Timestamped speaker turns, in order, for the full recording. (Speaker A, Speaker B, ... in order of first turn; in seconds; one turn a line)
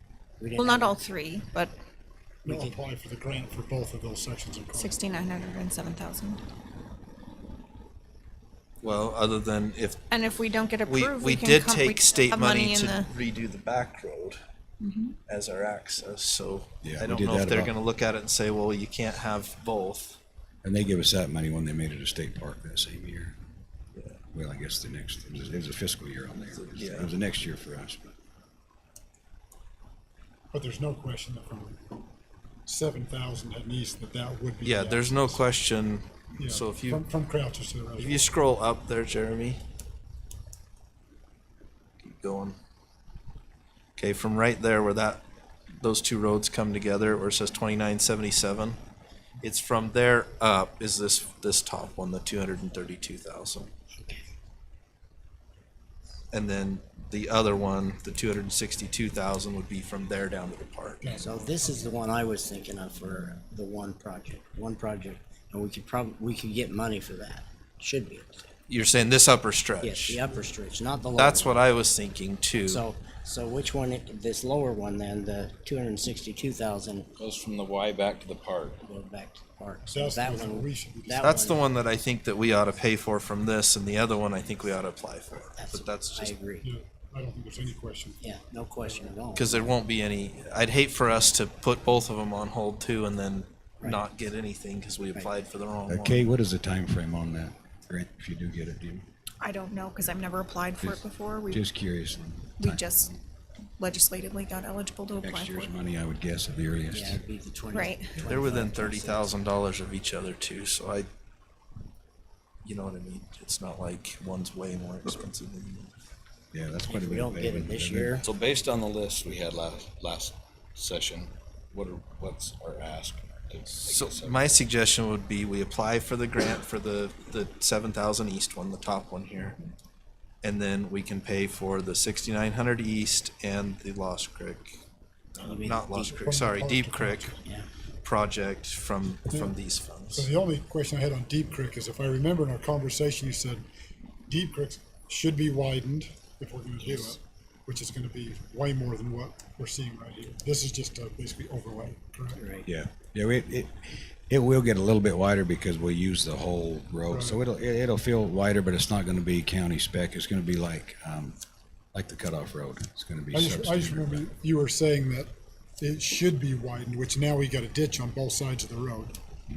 Speaker A: 0.4-1.0
Speaker B: 0.6-1.7
Speaker C: 2.4-5.0
Speaker A: 2.5-2.8
Speaker B: 4.7-6.4
Speaker D: 8.8-10.0
Speaker B: 10.1-13.1
Speaker D: 10.8-14.4
Speaker B: 14.8-15.2
Speaker D: 15.3-20.2
Speaker E: 16.8-17.7
Speaker E: 20.6-23.3
Speaker D: 23.9-24.2
Speaker E: 24.3-28.1
Speaker D: 26.5-27.1
Speaker C: 30.5-32.0
Speaker C: 32.7-35.4
Speaker D: 34.6-37.0
Speaker C: 36.4-38.3
Speaker D: 38.0-39.6
Speaker D: 42.0-42.5
Speaker D: 44.0-45.2
Speaker D: 45.8-48.8
Speaker D: 49.4-53.7
Speaker D: 56.3-61.1
Speaker C: 61.0-61.8
Speaker A: 61.1-68.5
Speaker D: 68.7-70.2
Speaker A: 69.8-71.7
Speaker D: 71.1-72.8
Speaker A: 72.6-77.1
Speaker F: 77.2-78.8
Speaker A: 78.8-81.6
Speaker C: 79.9-81.6
Speaker D: 81.2-86.3
Speaker A: 85.5-86.7
Speaker C: 86.6-88.2
Speaker A: 88.2-89.8
Speaker D: 89.3-96.2
Speaker E: 95.9-99.0
Speaker B: 99.4-101.6
Speaker E: 100.8-103.2
Speaker B: 102.6-103.1
Speaker B: 103.8-105.7
Speaker E: 105.2-107.2
Speaker A: 106.9-109.4
Speaker B: 107.7-108.1
Speaker D: 108.2-111.1
Speaker D: 112.6-115.9
Speaker E: 116.5-118.3
Speaker A: 116.8-118.2
Speaker F: 118.2-124.5
Speaker D: 123.8-129.6
Speaker D: 130.4-134.7
Speaker D: 135.4-137.3
Speaker A: 135.4-136.3
Speaker C: 136.0-137.4
Speaker D: 138.0-140.3
Speaker C: 139.3-139.6
Speaker C: 140.1-143.6
Speaker C: 144.3-152.4
Speaker A: 152.4-152.7
Speaker E: 152.7-161.4
Speaker C: 157.1-157.4
Speaker E: 161.9-164.3
Speaker C: 163.3-169.2